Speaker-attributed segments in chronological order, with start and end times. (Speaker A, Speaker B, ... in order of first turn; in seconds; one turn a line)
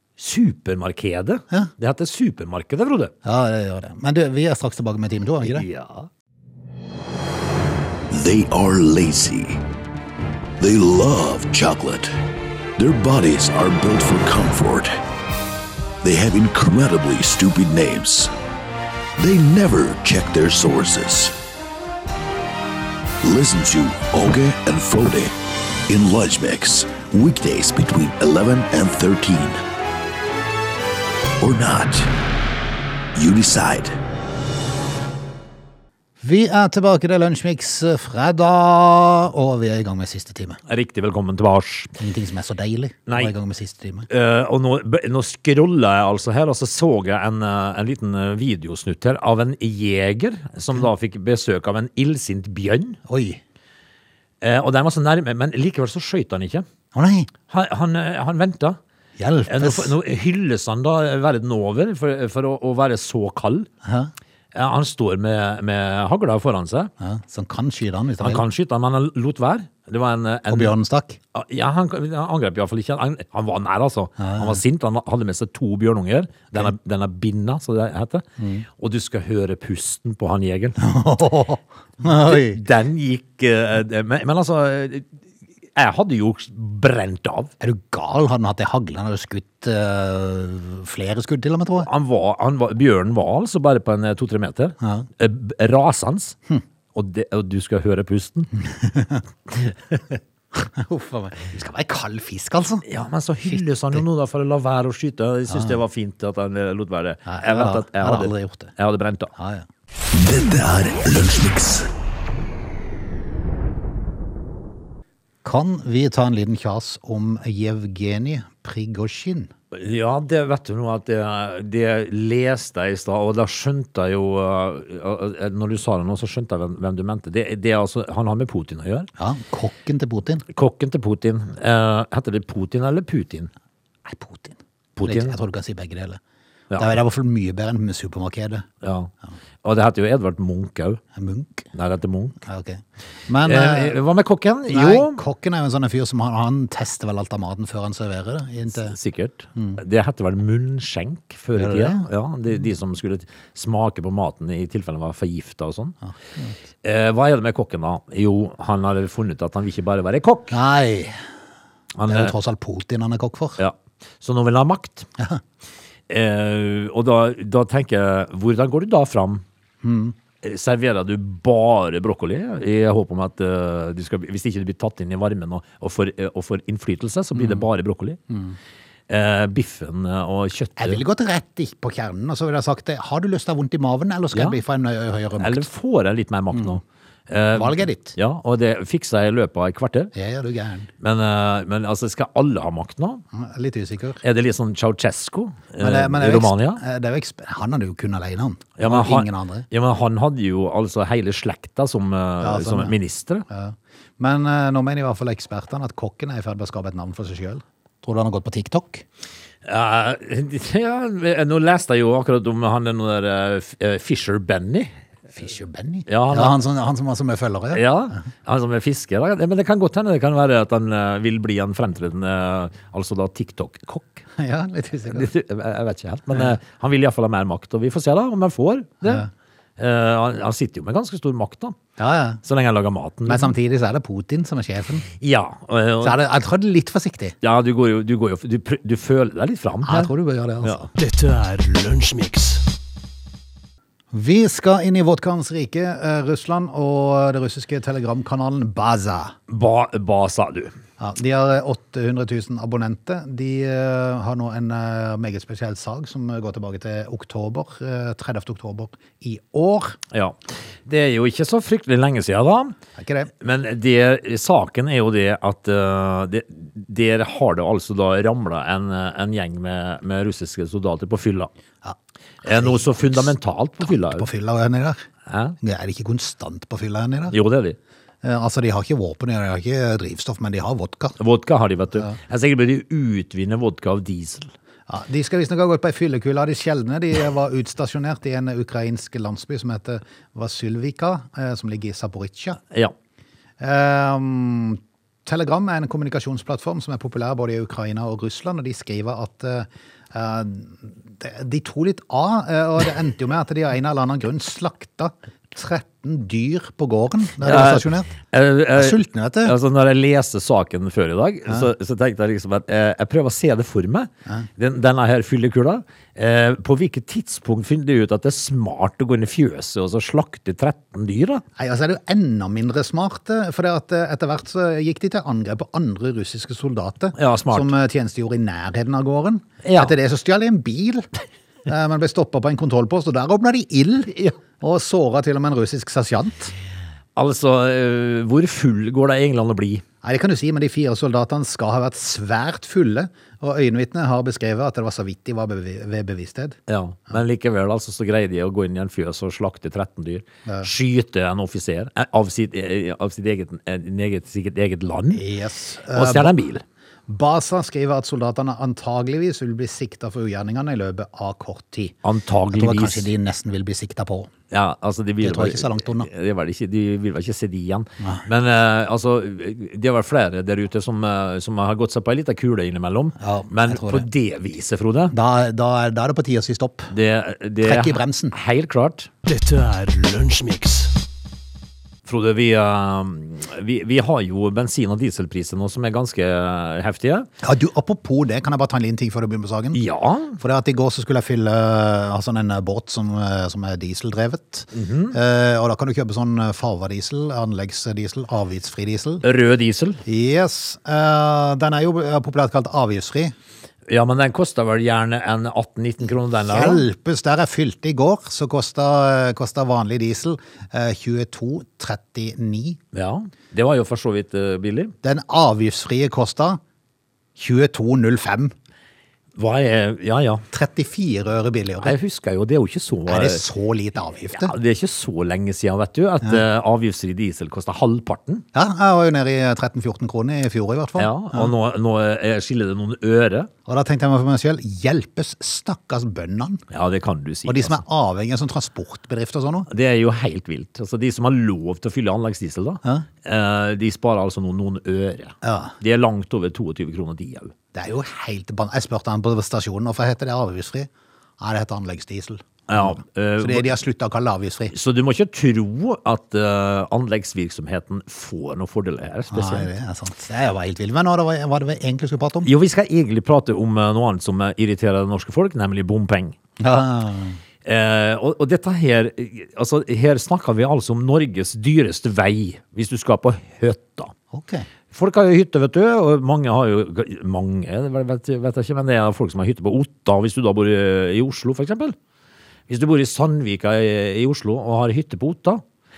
Speaker A: 0.2-3.1
Speaker B: 3.2-5.7
Speaker A: 5.4-6.1
Speaker C: 8.1-9.6
Speaker C: 10.6-12.1
Speaker C: 12.8-14.9
Speaker C: 16.0-18.3
Speaker C: 19.2-21.4
Speaker C: 23.2-25.3
Speaker C: 25.9-29.6
Speaker C: 31.4-32.1
Speaker C: 33.1-33.9
Speaker B: 36.2-40.6
Speaker A: 40.7-41.9
Speaker B: 42.0-44.1
Speaker A: 43.1-43.3
Speaker A: 44.1-53.0
Speaker B: 53.1-53.4
Speaker A: 54.4-56.6
Speaker B: 56.9-57.3
Speaker A: 57.5-58.8
Speaker B: 59.2-59.9
Speaker A: 59.5-63.7
Speaker B: 63.8-64.1
Speaker A: 64.5-66.9
Speaker B: 67.0-68.4
Speaker A: 68.2-70.7
Speaker B: 70.5-71.2
Speaker A: 71.3-80.8
Speaker B: 74.2-74.6
Speaker B: 78.4-78.7
Speaker B: 80.8-82.6
Speaker A: 82.0-85.1
Speaker A: 85.7-87.5
Speaker B: 87.6-91.9
Speaker A: 91.8-96.4
Speaker B: 94.8-95.1
Speaker A: 96.9-98.5
Speaker B: 98.7-99.2
Speaker A: 99.5-100.2
Speaker B: 100.5-102.8
Speaker A: 102.8-109.3
Speaker B: 103.5-104.0
Speaker B: 105.5-105.8
Speaker B: 107.2-108.7
Speaker B: 109.3-109.7
Speaker C: 110.1-111.9
Speaker B: 115.4-119.5
Speaker A: 119.7-129.1
Speaker B: 129.2-130.4
Speaker A: 130.5-133.5
Speaker B: 134.1-136.2
Speaker A: 134.9-135.3
Speaker B: 136.8-138.7
Speaker A: 138.8-139.1
Speaker A: 139.6-141.0
Speaker B: 141.1-141.7
Speaker A: 141.7-142.4
Speaker B: 142.4-144.0
Speaker A: 143.4-145.2
Speaker B: 144.7-148.9
Speaker A: 148.7-155.9
Speaker B: 151.6-152.1
Speaker B: 156.1-156.6
Speaker A: 156.8-160.6
Speaker B: 160.5-161.1
Speaker A: 162.0-162.3
Speaker B: 162.1-163.6
Speaker A: 163.6-165.1
Speaker A: 166.1-169.4
Speaker B: 169.8-170.2
Speaker A: 170.4-178.2
Speaker B: 177.3-177.7
Speaker B: 178.3-178.6
Speaker A: 179.1-181.0
Speaker B: 180.8-185.6
Speaker A: 184.3-184.6
Speaker A: 185.4-190.1
Speaker B: 186.5-186.8
Speaker B: 187.5-188.2
Speaker B: 190.1-190.9
Speaker A: 191.0-193.2
Speaker B: 193.3-194.2
Speaker A: 194.2-196.8
Speaker B: 195.8-199.7
Speaker A: 198.8-203.4
Speaker B: 202.4-202.9
Speaker B: 203.5-209.0
Speaker A: 209.6-214.9
Speaker B: 215.3-217.8
Speaker A: 216.1-216.6
Speaker A: 217.7-224.2
Speaker B: 224.4-225.3
Speaker A: 225.1-229.3
Speaker A: 229.8-231.8
Speaker B: 232.0-232.4
Speaker A: 232.4-233.5
Speaker B: 233.2-235.1
Speaker A: 235.1-236.2
Speaker B: 236.0-237.3
Speaker A: 237.4-240.1
Speaker B: 239.8-240.8
Speaker A: 240.6-240.9
Speaker C: 241.0-242.6
Speaker B: 244.1-249.3
Speaker A: 249.5-250.7
Speaker B: 251.0-260.0
Speaker A: 260.1-262.8
Speaker B: 263.0-263.3
Speaker A: 263.4-271.5
Speaker B: 271.8-275.0
Speaker A: 272.4-274.3
Speaker A: 275.3-275.6
Speaker B: 275.6-277.4
Speaker A: 277.3-277.8
Speaker B: 278.2-281.2
Speaker A: 281.2-284.5
Speaker B: 284.9-292.6
Speaker B: 293.6-308.1
Speaker A: 307.4-321.4
Speaker B: 308.7-309.5
Speaker B: 321.6-331.1
Speaker A: 327.1-327.7
Speaker A: 329.6-329.9
Speaker B: 331.6-336.5
Speaker A: 337.1-339.8
Speaker B: 340.0-346.6
Speaker A: 346.7-355.2
Speaker B: 355.1-356.4
Speaker A: 355.9-356.6
Speaker B: 357.1-361.9
Speaker A: 362.0-363.1
Speaker B: 362.5-364.3
Speaker A: 364.5-375.1
Speaker B: 365.2-366.1
Speaker B: 368.0-368.2
Speaker B: 373.2-374.1
Speaker B: 375.1-376.9
Speaker A: 376.9-379.1
Speaker B: 377.6-378.3
Speaker C: 379.2-380.9
Speaker A: 382.0-387.3
Speaker B: 387.4-389.8
Speaker A: 389.7-390.4
Speaker B: 390.4-399.2
Speaker A: 394.7-395.2
Speaker A: 399.2-400.0
Speaker B: 400.1-403.3
Speaker A: 403.9-406.9
Speaker B: 406.5-412.8
Speaker A: 412.9-414.9
Speaker B: 415.0-416.6
Speaker B: 417.4-418.5
Speaker A: 419.4-420.4
Speaker B: 420.5-421.9
Speaker A: 421.8-423.4
Speaker B: 423.1-424.5
Speaker A: 424.3-428.4
Speaker B: 428.5-431.5
Speaker A: 431.0-433.5
Speaker B: 433.7-436.6
Speaker A: 436.7-437.8
Speaker B: 437.4-439.7
Speaker A: 439.7-447.5
Speaker B: 445.4-445.7
Speaker B: 447.7-454.7
Speaker A: 452.7-453.7
Speaker A: 454.7-459.7
Speaker B: 459.3-462.5
Speaker A: 462.4-466.4
Speaker B: 466.6-467.4
Speaker A: 467.6-474.1
Speaker B: 474.3-474.7
Speaker A: 474.9-481.9
Speaker A: 482.7-485.6